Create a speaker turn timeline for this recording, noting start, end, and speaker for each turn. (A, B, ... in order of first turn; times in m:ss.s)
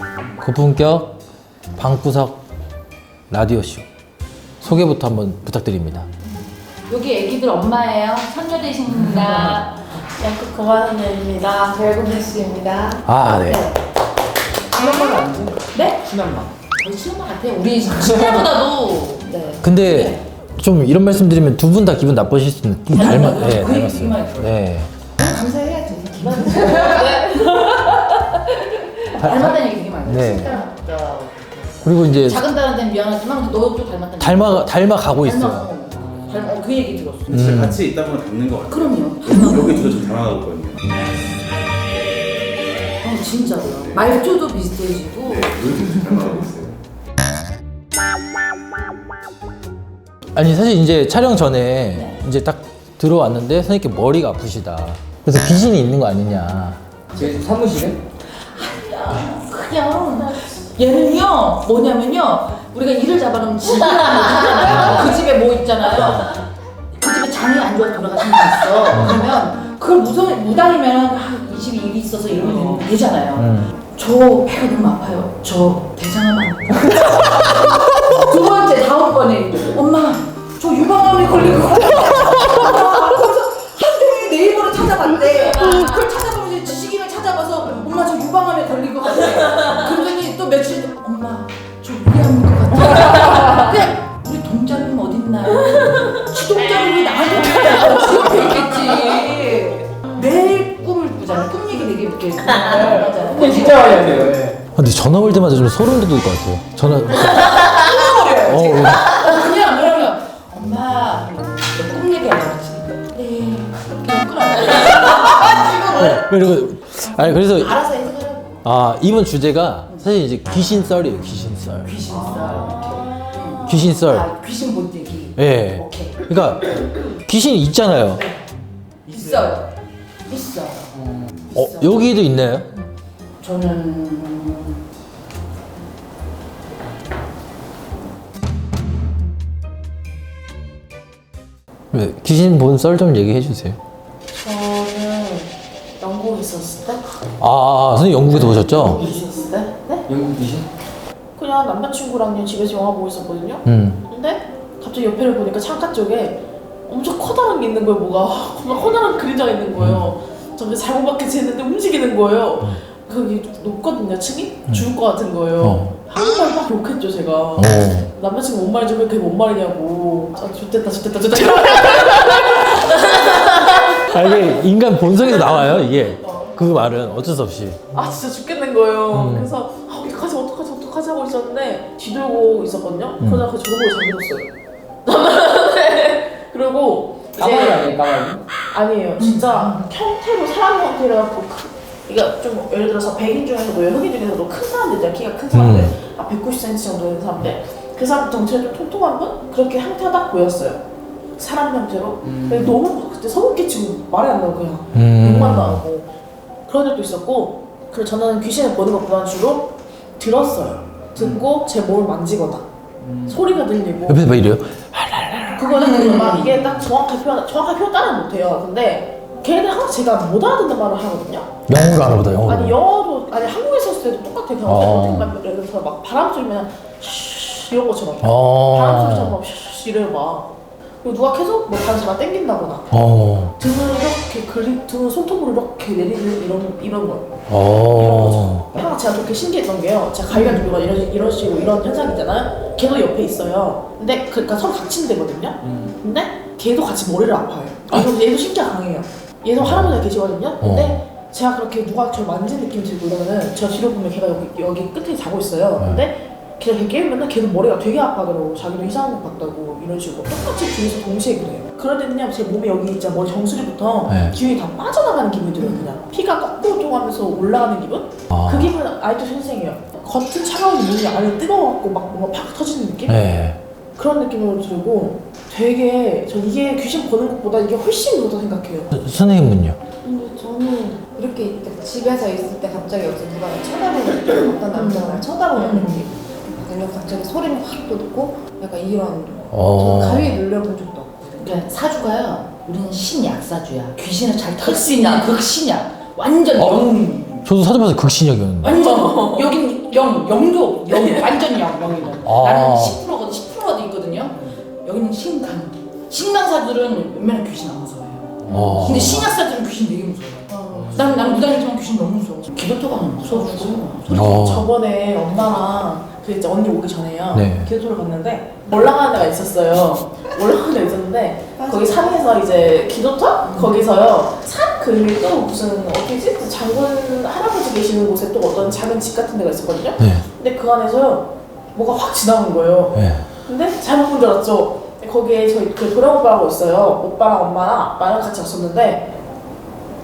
0:00.4-0:01.2 A
0:01.8-0:02.4 A
0:03.3-0:03.9 A
0:04.6-0:06.1 A
0:06.9-0:09.8 B
0:10.2-0:11.4 C
0:11.4-0:13.5 D
0:13.1-0:13.7 A
0:14.8-0:20.2 B
0:19.6-0:24.9 A
0:22.9-0:24.6 B
0:25.2-0:37.4 B
0:26.2-0:27.2 C
0:29.2-0:30.6 A
0:31.8-0:32.4 A
0:34.2-0:35.7 A
0:37.3-0:40.8 E
0:37.3-0:37.8 A
0:38.7-0:40.1 B
0:43.0-0:45.6 B
0:43.7-0:44.0 E
0:45.2-0:46.8 E
0:50.4-0:56.8 A
0:51.9-0:52.2 B
0:57.2-0:58.0 F
0:58.3-1:06.4 B
1:00.3-1:00.6 C
1:04.7-1:05.0 A
1:06.9-1:44.2 B
1:08.9-1:09.2 A
1:13.4-1:13.7 A
1:43.4-1:44.6 F
1:44.8-1:47.7 A
1:47.1-1:56.3 B
1:48.4-1:49.1 A
1:55.9-1:57.8 A
1:57.0-1:58.6 B
1:58.6-2:02.0 A
2:01.8-2:06.2 B
2:03.6-2:04.3 A
2:05.4-2:08.2 A
2:09.1-2:09.5 F
2:09.1-2:09.7 B
2:10.3-2:11.0 B
2:11.5-2:12.1 B
2:11.5-2:12.7 A
2:13.4-2:14.8 B
2:21.9-2:23.8 A
2:24.3-2:27.0 C
2:27.4-2:29.0 A
2:28.5-2:30.1 C
2:28.8-2:29.4 B
2:30.1-2:30.7 F
2:31.4-2:54.2 C
2:33.6-2:34.0 A
2:39.8-2:40.1 A
2:45.6-2:46.0 A
2:47.6-2:48.1 A
2:54.1-2:57.9 A
2:55.4-2:55.9 C
2:57.9-3:04.5 C
2:59.1-2:59.5 A
3:03.2-3:03.5 A
3:05.0-3:07.9 C
3:07.3-3:08.4 F
3:08.7-3:20.8 C
3:09.2-3:09.8 B
3:15.5-3:16.0 A
3:21.4-3:26.1 C
3:22.2-3:22.7 F
3:24.9-3:25.8 A
3:26.7-3:32.7 C
3:31.2-3:31.4 F
3:33.0-3:33.4 F
3:33.3-3:34.3 C
3:34.1-3:35.8 A
3:35.6-3:41.5 C
3:35.7-3:36.8 B
3:41.7-3:42.8 A
3:42.2-3:50.5 C
3:44.7-3:45.3 A
3:48.2-3:49.4 A
3:51.0-3:53.0 C
3:52.9-3:53.5 A
3:53.6-3:57.3 C
3:57.5-3:58.7 A
3:57.8-4:33.2 C
4:09.6-4:10.0 A
4:10.6-4:11.0 A
4:24.1-4:24.4 A
4:25.6-4:25.9 B
4:28.3-4:28.7 A
4:33.1-4:33.6 A
4:34.0-4:38.9 C
4:38.9-4:39.8 A
4:40.0-4:51.5 D
4:44.8-4:46.0 C
4:49.5-4:50.4 A
4:51.4-4:57.5 B
4:56.6-4:58.7 A
4:58.6-5:14.5 B
4:58.7-4:59.4 C
5:02.2-5:03.0 A
5:08.4-5:09.3 A
5:13.3-5:39.1 C
5:14.1-5:14.7 A
5:17.3-5:17.7 A
5:21.6-5:22.2 D
5:23.5-5:23.8 B
5:30.0-5:30.2 A
5:32.9-5:33.2 A